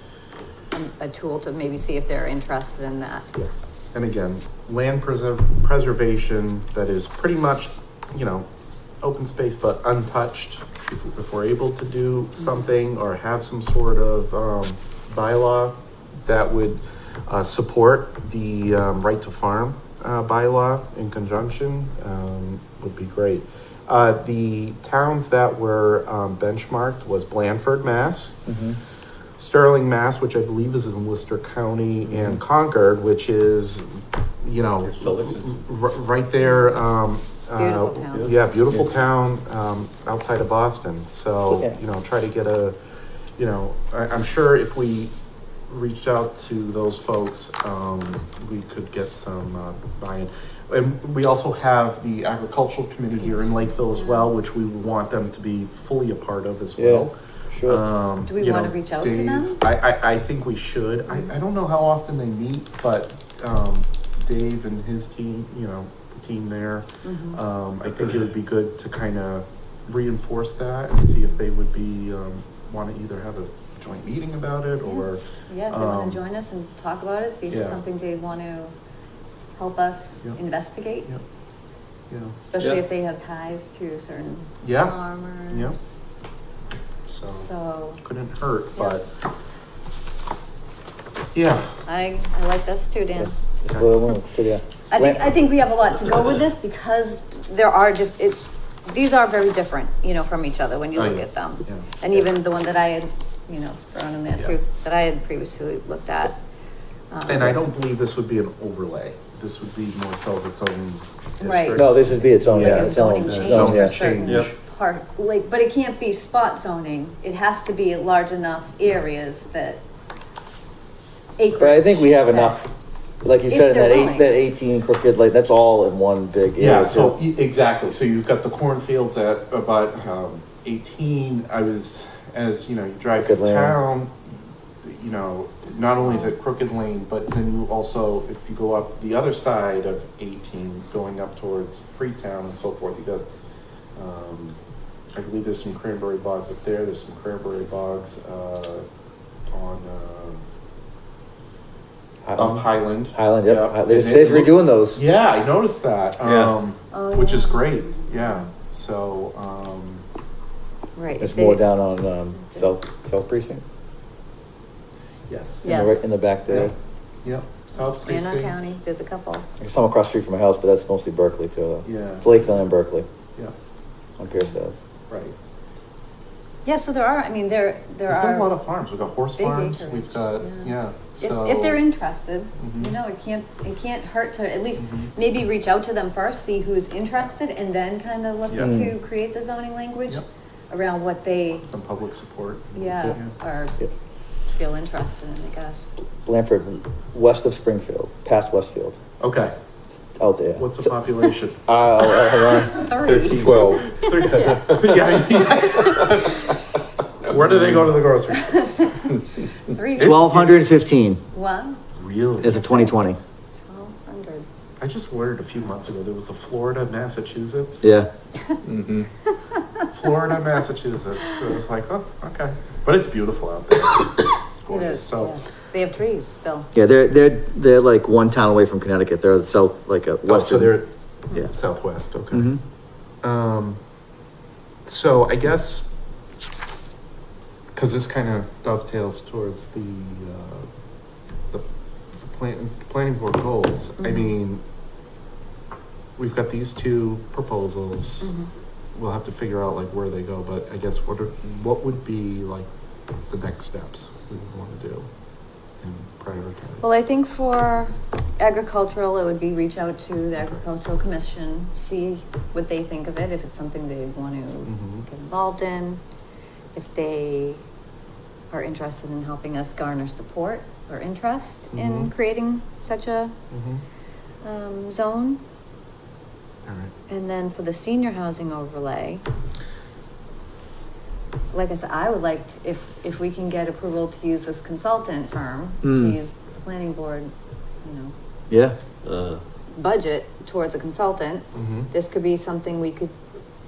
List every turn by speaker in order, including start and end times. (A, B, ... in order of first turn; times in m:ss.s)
0:00.7-0:03.4 A
0:03.9-0:08.4 B
0:09.0-0:28.4 B
0:28.5-0:28.8 C
0:29.4-0:42.8 B
0:34.8-0:35.5 D
0:37.5-0:38.3 A
0:38.1-0:38.8 D
0:41.5-0:41.8 C
0:43.4-0:45.1 B
0:45.7-1:16.2 B
0:54.0-0:54.3 A
0:56.8-0:57.8 C
0:58.3-0:59.6 A
1:07.0-1:07.4 A
1:14.8-1:18.7 A
1:17.5-1:17.8 B
1:19.6-1:21.1 A
1:22.1-1:22.4 B
1:22.4-1:25.7 A
1:24.6-1:25.8 B
1:27.1-1:29.1 B
1:27.3-1:28.0 A
1:31.3-1:31.7 B
1:31.8-1:33.3 A
1:33.6-1:35.4 C
1:34.9-1:46.4 A
1:41.0-1:42.0 B
1:47.1-1:47.6 A
1:47.3-1:54.6 B
1:51.4-1:59.8 A
1:51.7-1:54.1 C
1:54.2-1:54.5 D
2:01.4-2:02.6 A
2:01.6-2:02.7 C
2:03.2-2:07.2 C
2:03.5-2:04.4 A
2:06.6-2:23.3 B
2:13.2-2:13.8 C
2:16.0-2:16.3 A
2:24.0-2:24.6 B
2:25.2-2:28.8 B
2:29.5-2:30.4 B
2:32.2-2:35.0 C
2:32.3-2:40.0 B
2:36.2-2:36.5 D
2:36.9-2:38.4 A
2:41.0-2:41.7 A
2:41.2-2:43.6 C
2:45.3-2:45.7 B
2:45.6-2:46.8 C
2:45.6-2:46.1 A
2:46.5-2:46.7 B
2:47.2-2:48.7 B
2:47.8-2:49.5 A
2:49.6-2:53.1 C
2:51.8-2:52.3 B
2:54.2-2:54.8 C
2:55.1-2:55.3 B
2:56.6-2:58.6 A
2:58.1-3:01.8 B
2:59.4-3:11.7 A
3:02.6-3:03.0 B
3:04.8-3:05.1 B
3:08.5-3:08.8 B
3:08.6-3:09.0 C
3:11.6-3:13.3 B
3:12.8-3:13.9 A
3:14.5-3:15.9 A
3:16.2-3:19.0 C
3:19.2-3:19.6 B
3:20.2-3:21.1 C
3:20.6-3:21.6 B
3:21.7-3:22.9 C
3:22.5-3:24.8 A
3:23.0-3:25.2 D
3:23.7-3:26.5 B
3:27.2-3:28.8 B
3:28.3-3:30.4 A
3:30.0-3:30.6 B
3:30.0-3:31.2 C
3:31.3-3:31.8 A
3:32.0-3:32.6 B
3:32.4-3:33.2 C
3:32.4-3:33.0 A
3:33.6-3:34.5 A
3:34.8-3:37.9 B
3:37.8-3:38.1 C
3:38.6-3:39.1 D
3:39.9-3:45.4 B
3:44.7-3:46.7 A
3:46.8-3:50.8 C
3:50.2-3:52.5 B
3:52.3-3:52.6 C
3:53.2-3:53.8 B
3:54.9-3:55.9 B
3:57.7-4:00.7 B
4:02.2-4:04.6 B
4:04.0-4:04.3 A
4:06.2-4:08.3 B
4:08.2-4:08.5 A
4:09.0-4:12.7 B
4:13.3-4:15.1 B
4:15.8-4:16.8 B
4:16.8-4:26.0 A
4:24.7-4:25.1 B
4:26.8-4:27.6 A
4:28.5-4:33.4 A
4:31.7-4:32.1 B
4:33.5-4:33.8 B
4:34.4-4:35.4 A
4:36.6-4:36.9 B
4:37.1-4:39.2 A
4:41.5-4:48.1 A
4:45.8-4:46.2 C
4:48.5-4:48.8 C
4:49.0-4:49.4 D
4:49.7-4:53.1 A
4:51.5-4:51.9 B